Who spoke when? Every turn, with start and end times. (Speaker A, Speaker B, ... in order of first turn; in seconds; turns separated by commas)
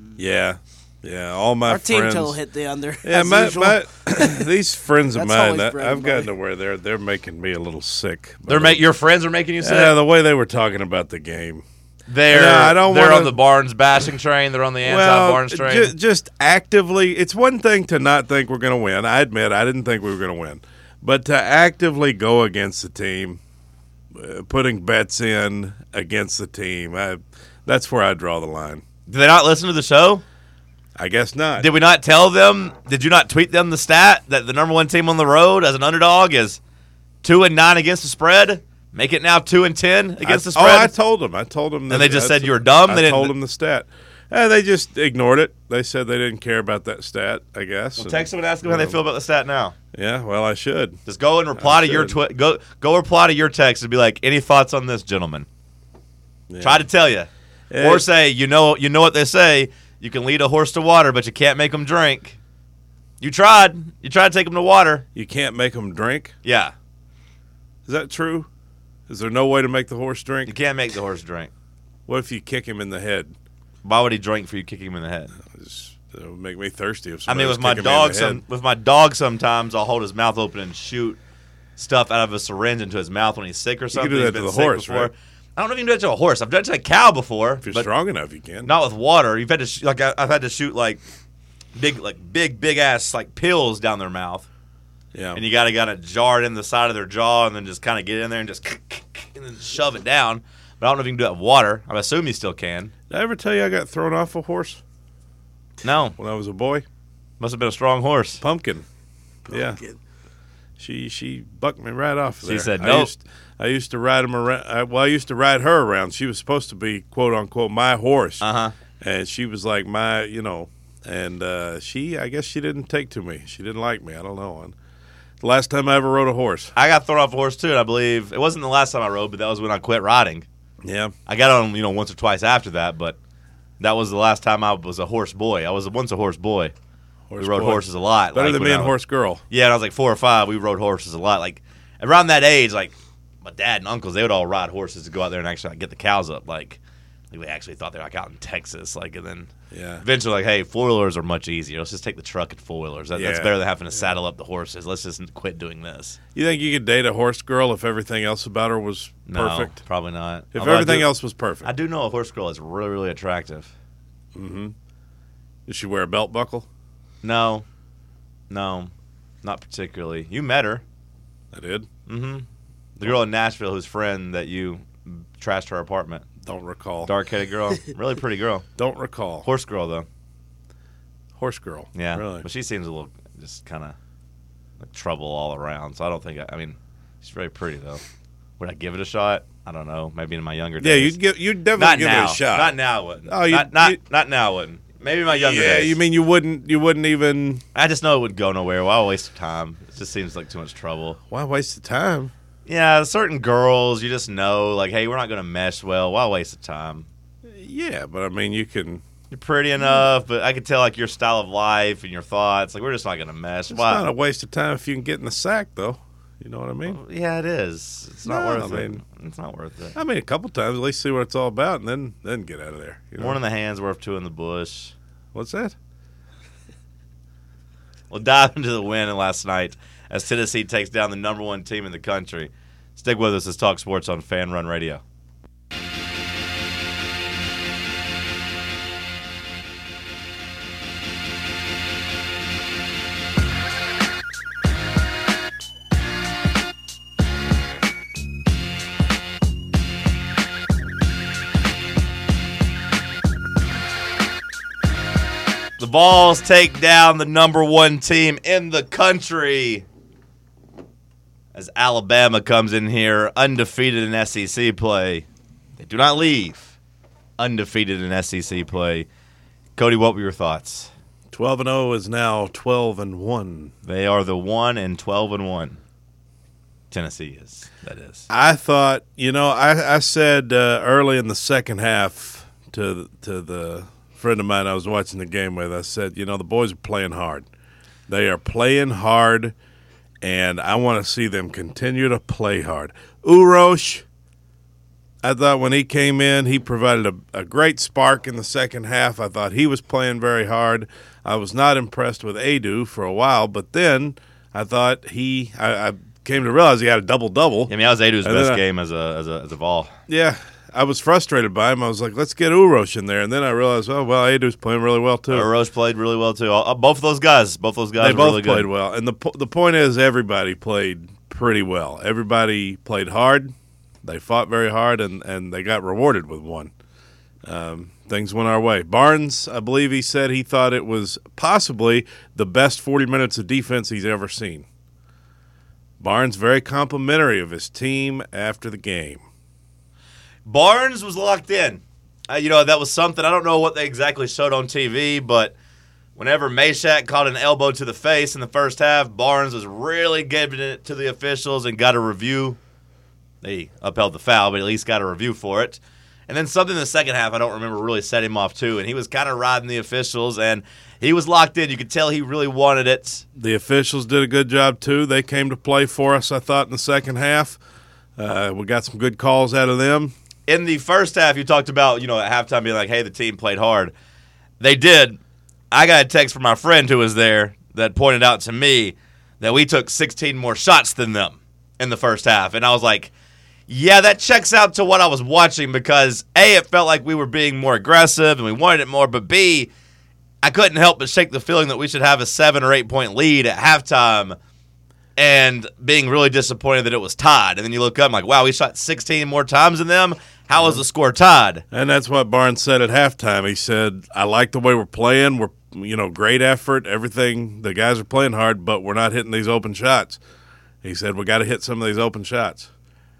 Speaker A: 0.2-2.4, Speaker B: 1.6-4.5, Speaker A: 3.0-8.8, Speaker B: 5.1-6.3, Speaker C: 8.5-9.9, Speaker A: 9.6-11.6, Speaker C: 12.1-15.9, Speaker A: 12.3-13.4, Speaker A: 14.8-23.4, Speaker A: 24.1-28.8, Speaker C: 29.1-30.2, Speaker A: 30.9-31.7, Speaker C: 31.6-36.6, Speaker C: 37.2-40.9, Speaker A: 40.2-49.0, Speaker C: 41.9-43.3, Speaker C: 48.0-49.8, Speaker A: 49.9-51.0, Speaker C: 51.0-55.5, Speaker A: 51.6-52.2, Speaker A: 56.5-56.9, Speaker C: 56.6-62.4, Speaker A: 57.7-58.0, Speaker C: 63.2-65.0, Speaker A: 65.1-66.4, Speaker C: 66.4-66.7, Speaker A: 67.9-68.5, Speaker A: 69.1-70.5, Speaker C: 70.5-71.5, Speaker A: 72.1-73.3, Speaker C: 73.8-75.3, Speaker A: 75.4-78.4, Speaker C: 77.3-81.2, Speaker C: 81.8-87.9, Speaker A: 83.9-85.1, Speaker A: 87.6-88.7, Speaker C: 88.6-91.0, Speaker C: 91.8-94.5, Speaker A: 95.1-95.4, Speaker C: 95.3-102.9, Speaker A: 103.1-104.8, Speaker C: 105.8-106.2, Speaker A: 106.2-106.8, Speaker C: 107.4-108.4, Speaker A: 108.4-108.9, Speaker A: 109.5-109.8, Speaker B: 109.5-110.0, Speaker A: 110.8-118.4, Speaker C: 112.4-113.1, Speaker C: 118.4-118.8, Speaker A: 119.0-124.8, Speaker A: 125.4-126.7, Speaker C: 126.8-130.5, Speaker A: 130.8-131.1, Speaker C: 131.3-133.2, Speaker C: 133.8-136.7, Speaker A: 137.3-139.4, Speaker C: 137.4-138.9, Speaker C: 139.5-146.8, Speaker C: 147.3-156.2, Speaker A: 149.7-150.0, Speaker A: 153.1-153.5, Speaker A: 156.3-159.8, Speaker C: 159.3-161.1, Speaker A: 160.5-161.7, Speaker C: 161.6-163.7, Speaker A: 164.3-164.8, Speaker A: 165.7-166.7, Speaker C: 167.2-167.6, Speaker C: 168.5-168.9, Speaker C: 169.4-170.8, Speaker A: 171.5-171.9, Speaker C: 172.1-172.5, Speaker C: 173.0-176.2, Speaker A: 176.4-177.1, Speaker C: 177.0-178.7, Speaker A: 178.8-179.5, Speaker C: 179.4-180.1, Speaker A: 181.4-182.4, Speaker C: 181.9-184.0, Speaker C: 184.8-188.0, Speaker C: 188.6-191.2, Speaker A: 190.8-194.0, Speaker C: 191.8-196.0, Speaker A: 195.3-197.6, Speaker C: 197.8-201.2, Speaker A: 201.3-202.3, Speaker C: 202.7-207.1, Speaker A: 207.4-209.0, Speaker C: 209.3-214.1, Speaker A: 213.7-217.0, Speaker C: 216.9-220.0, Speaker A: 218.2-219.0, Speaker A: 219.9-223.4, Speaker C: 223.2-224.9, Speaker A: 225.3-225.8, Speaker C: 228.1-235.0, Speaker C: 255.8-259.9, Speaker C: 261.5-265.2, Speaker C: 265.8-266.7, Speaker C: 267.4-269.1, Speaker C: 269.8-270.9, Speaker A: 271.3-273.7, Speaker C: 273.9-275.8, Speaker C: 276.9-278.3, Speaker A: 278.3-287.5, Speaker A: 288.1-289.5, Speaker A: 290.2-294.0, Speaker A: 295.2-307.7, Speaker C: 307.7-309.9, Speaker A: 308.2-308.6, Speaker A: 310.1-315.5, Speaker C: 315.3-318.7, Speaker A: 318.0-326.7, Speaker A: 327.4-334.6, Speaker A: 336.0-339.2, Speaker C: 340.4-345.5, Speaker C: 346.1-352.6, Speaker C: 353.4-363.2, Speaker A: 363.4-367.6, Speaker A: 368.2-370.1, Speaker C: 370.5-373.9, Speaker C: 374.6-375.2, Speaker C: 375.7-383.1, Speaker C: 383.7-389.7, Speaker C: 390.4-394.4, Speaker C: 395.2-401.6, Speaker A: 401.7-410.2, Speaker A: 410.8-412.7